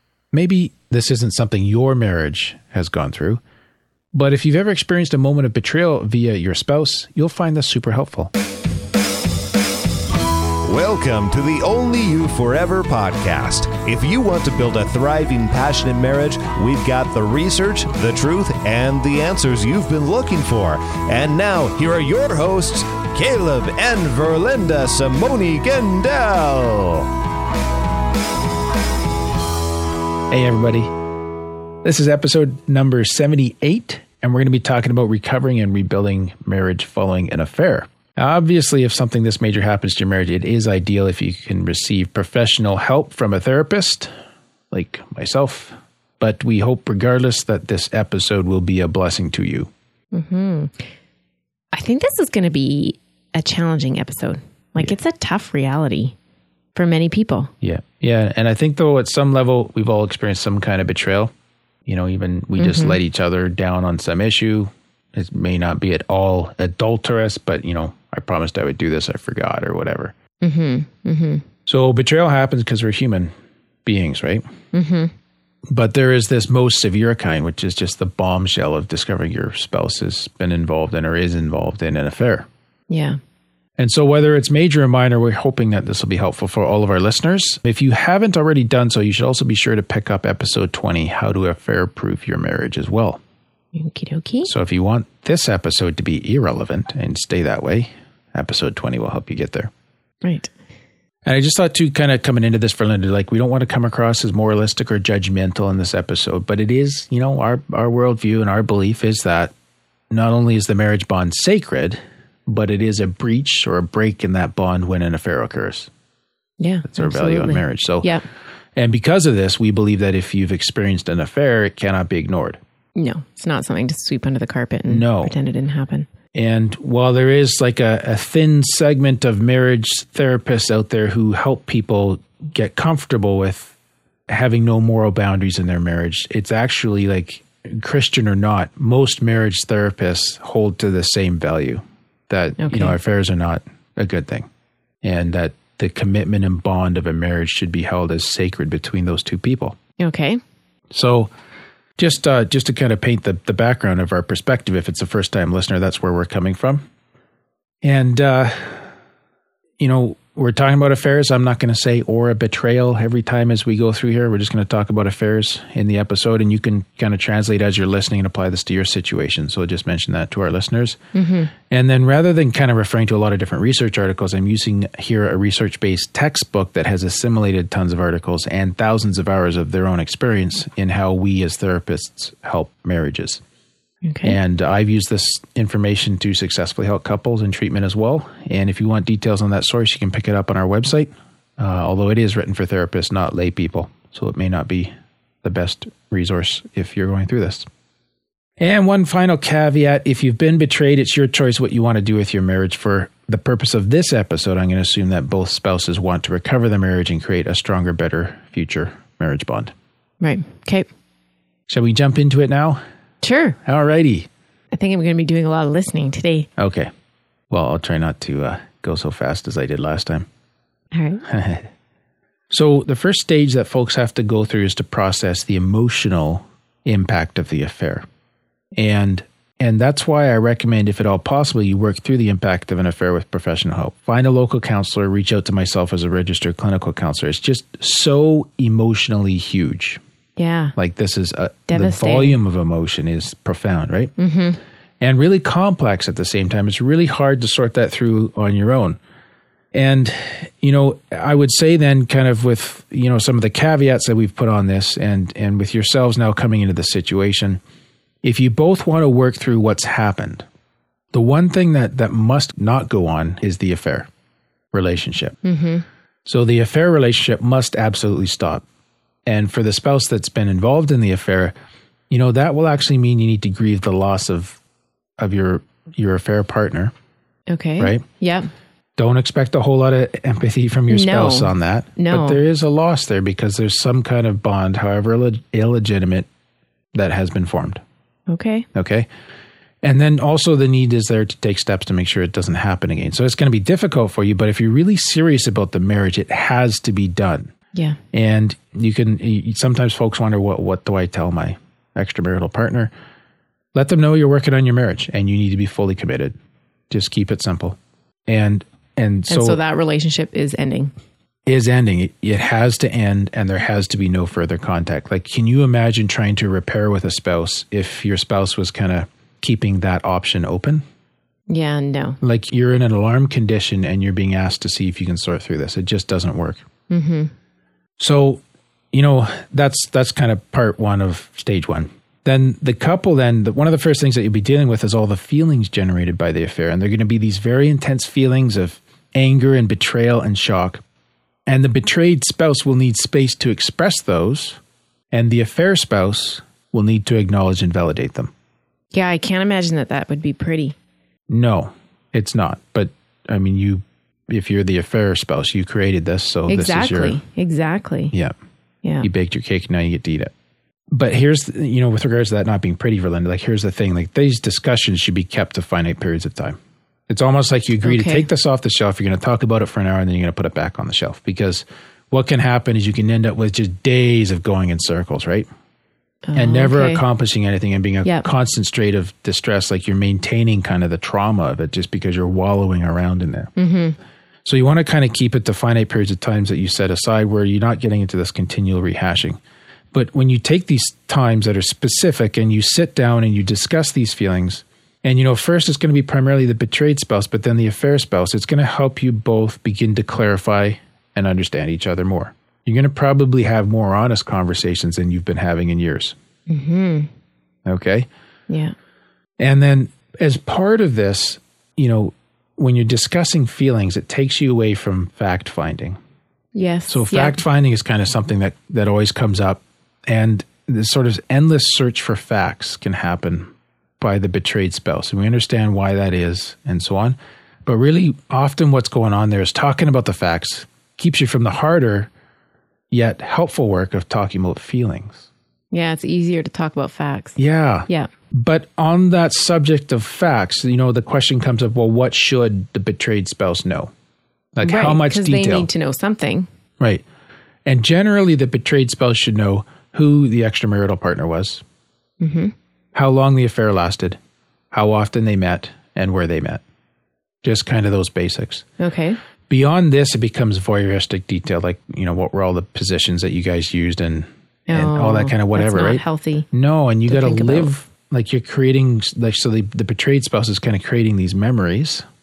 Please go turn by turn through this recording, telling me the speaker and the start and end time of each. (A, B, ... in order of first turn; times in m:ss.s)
0:00.3-0:03.4 A
0:04.1-0:08.3 A
0:10.6-0:27.1 B
0:30.3-0:30.9 A
0:31.8-0:44.1 A
0:44.7-0:49.7 A
0:50.1-0:50.8 C
0:51.7-0:56.1 C
0:56.7-0:57.5 C
0:57.6-1:01.3 A
1:01.8-1:10.1 A
1:02.6-1:03.0 C
1:10.4-1:11.4 C
1:11.6-1:13.3 A
1:13.8-1:14.4 A
1:14.7-1:15.1 C
1:15.7-1:22.5 A
1:22.9-1:23.2 C
1:23.8-1:33.2 A
1:33.7-1:34.5 C
1:34.4-1:39.7 A
1:40.2-1:40.5 C
1:41.2-1:49.5 A
1:50.1-1:55.9 A
1:56.6-1:58.2 C
1:56.8-1:58.1 A
1:58.7-2:02.6 A
2:03.0-2:06.1 C
2:04.9-2:05.3 A
2:06.3-2:13.7 A
2:14.3-2:24.5 A
2:22.6-2:23.0 C
2:25.0-2:29.8 A
2:30.0-2:30.4 C
2:30.9-2:31.3 A
2:32.0-2:36.8 A
2:37.8-2:38.9 A
2:39.8-2:51.0 A
2:51.1-2:51.5 C
2:51.7-3:03.4 A
3:04.0-3:04.4 C
3:04.2-3:14.9 A
3:15.4-3:17.7 A
3:18.6-3:29.7 A
3:30.2-3:30.9 C
3:31.7-3:32.8 A
3:33.2-3:33.6 C
3:33.6-3:34.3 A
3:34.7-3:36.5 C
3:36.6-3:36.9 A
3:37.5-3:40.3 A
3:40.9-3:41.2 C
3:41.2-3:41.7 A
3:42.5-3:48.0 A
3:48.8-4:00.0 A
4:00.4-4:00.7 C
4:00.8-4:04.1 A
4:01.7-4:02.4 C
4:04.2-4:04.6 C
4:05.0-4:09.0 A
4:09.7-4:17.6 A
4:18.2-4:20.4 A
4:21.1-4:24.1 A
4:24.7-4:25.4 A
4:25.4-4:25.8 C
4:26.2-4:28.6 A
4:29.2-4:31.5 A
4:32.1-4:34.6 A
4:35.2-4:36.9 A
4:37.5-4:38.5 C
4:37.8-4:38.0 A
4:39.0-4:46.3 A
4:40.9-4:42.4 C
4:46.9-4:47.8 A
4:48.3-4:48.7 C
4:48.7-4:49.1 A
4:49.8-4:57.5 A
4:57.7-4:58.0 C
4:58.1-5:02.9 A
5:03.7-5:06.3 A
5:06.9-5:09.6 A
5:09.3-5:10.9 C
5:11.5-5:20.8 A
5:21.5-5:22.2 C
5:22.2-5:26.6 A
5:26.9-5:27.3 C
5:28.0-5:40.8 A
5:41.5-5:44.6 A
5:45.1-5:48.3 A
5:48.9-5:50.8 C
5:51.3-5:57.2 A
5:56.5-5:58.1 C
5:59.0-6:00.3 A
6:00.9-6:06.6 A
6:07.1-6:15.5 A
6:07.8-6:08.2 C
6:16.3-6:17.0 C
6:16.3-6:23.5 A
6:23.6-6:24.0 C
6:24.4-6:29.4 A
6:29.9-6:46.1 A
6:46.5-6:47.1 C
6:47.6-6:48.1 A
6:48.5-6:48.7 C
6:49.4-6:56.0 A
6:56.5-6:57.4 C
6:56.9-7:12.1 A
7:12.9-7:15.3 A
7:15.7-7:18.1 C
7:17.4-7:23.9 A
7:24.5-7:25.7 A
7:24.6-7:26.5 C
7:27.6-7:31.6 A
7:32.2-7:32.5 C
7:32.9-7:34.2 A
7:34.7-7:36.6 A
7:37.4-7:38.6 A
7:38.8-7:39.2 C
7:39.5-7:52.0 A
7:44.7-7:46.5 C
7:47.1-7:47.7 C